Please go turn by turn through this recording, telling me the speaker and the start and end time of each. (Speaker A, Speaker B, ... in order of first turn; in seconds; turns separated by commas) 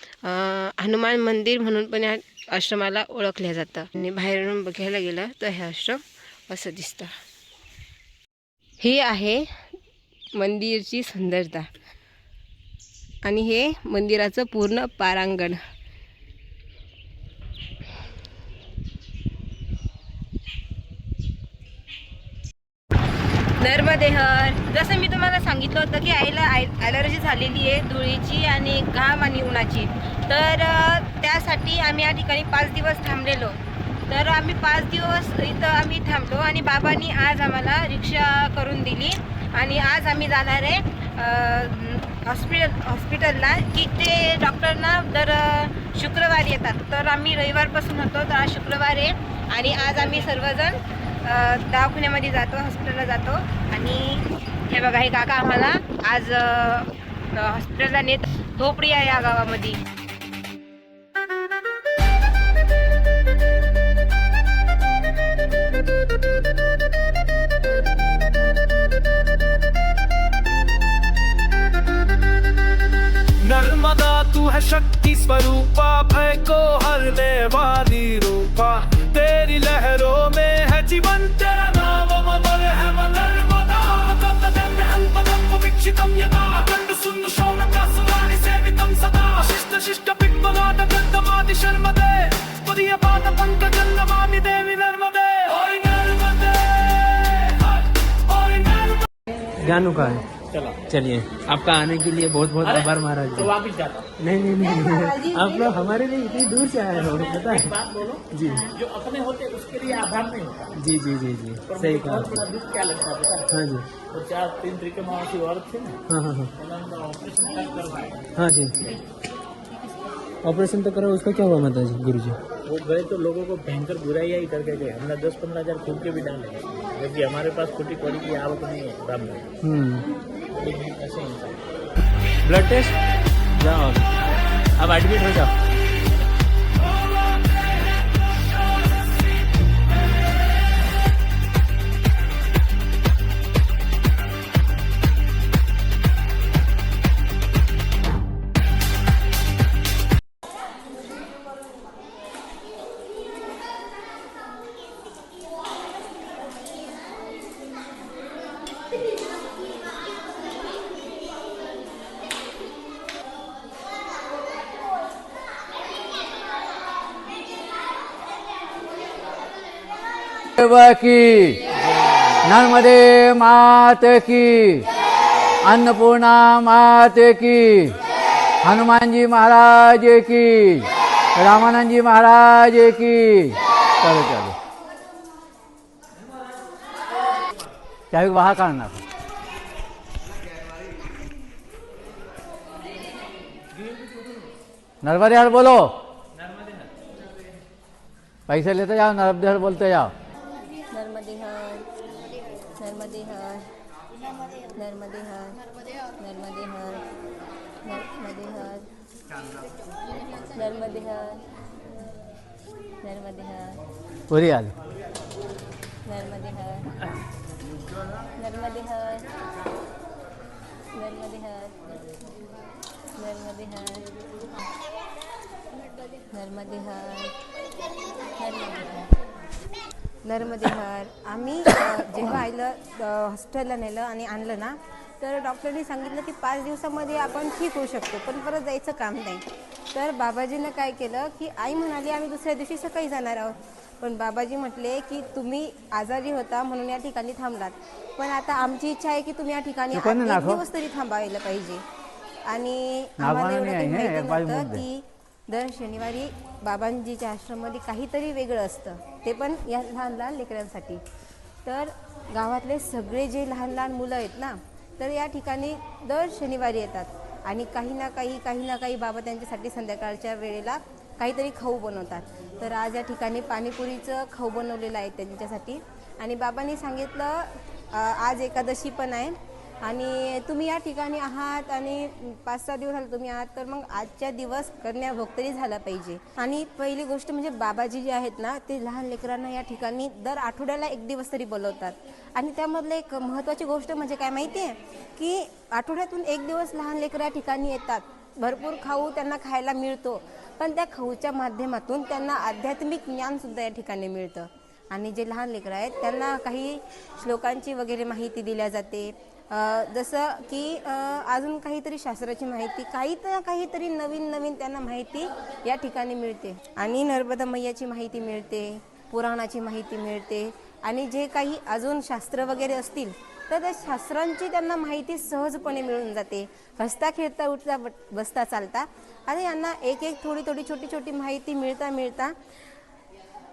Speaker A: 0.2-7.1, Speaker A: 8.8-9.5, Speaker A: 10.3-11.7, Speaker A: 13.2-15.6, Speaker A: 23.6-59.8, Speaker B: 73.4-99.1, Speaker C: 99.5-100.2, Speaker D: 100.5-100.9, Speaker C: 100.8-103.5, Speaker D: 102.6-104.1, Speaker C: 104.2-107.8, Speaker A: 104.6-105.8, Speaker D: 106.8-110.8, Speaker C: 108.3-108.7, Speaker C: 110.7-112.5, Speaker D: 111.6-116.0, Speaker C: 113.5-113.9, Speaker C: 116.1-116.5, Speaker D: 116.6-119.0, Speaker C: 118.3-118.8, Speaker C: 120.4-122.4, Speaker D: 122.6-129.6, Speaker C: 129.6-130.0, Speaker D: 130.5-131.7, Speaker C: 132.4-132.9, Speaker D: 132.5-132.9, Speaker C: 133.6-134.1, Speaker D: 133.6-133.9, Speaker D: 134.8-135.5, Speaker E: 170.6-171.6, Speaker E: 172.4-174.8, Speaker E: 175.6-178.0, Speaker E: 178.6-184.6, Speaker E: 188.1-189.0, Speaker E: 195.0-195.9, Speaker E: 198.5-200.1, Speaker A: 200.9-201.9, Speaker A: 202.8-203.7, Speaker A: 204.7-205.6, Speaker A: 206.2-207.0, Speaker A: 207.8-208.9, Speaker A: 210.5-211.4, Speaker A: 213.0-213.8, Speaker E: 214.3-214.7, Speaker A: 216.1-217.1, Speaker A: 218.4-219.3, Speaker A: 220.9-221.9, Speaker A: 223.2-224.1, Speaker A: 226.3-227.4, Speaker A: 228.4-229.1, Speaker A: 230.2-251.8, Speaker E: 249.9-250.6, Speaker A: 252.4-261.0, Speaker E: 253.2-254.8, Speaker A: 261.6-332.4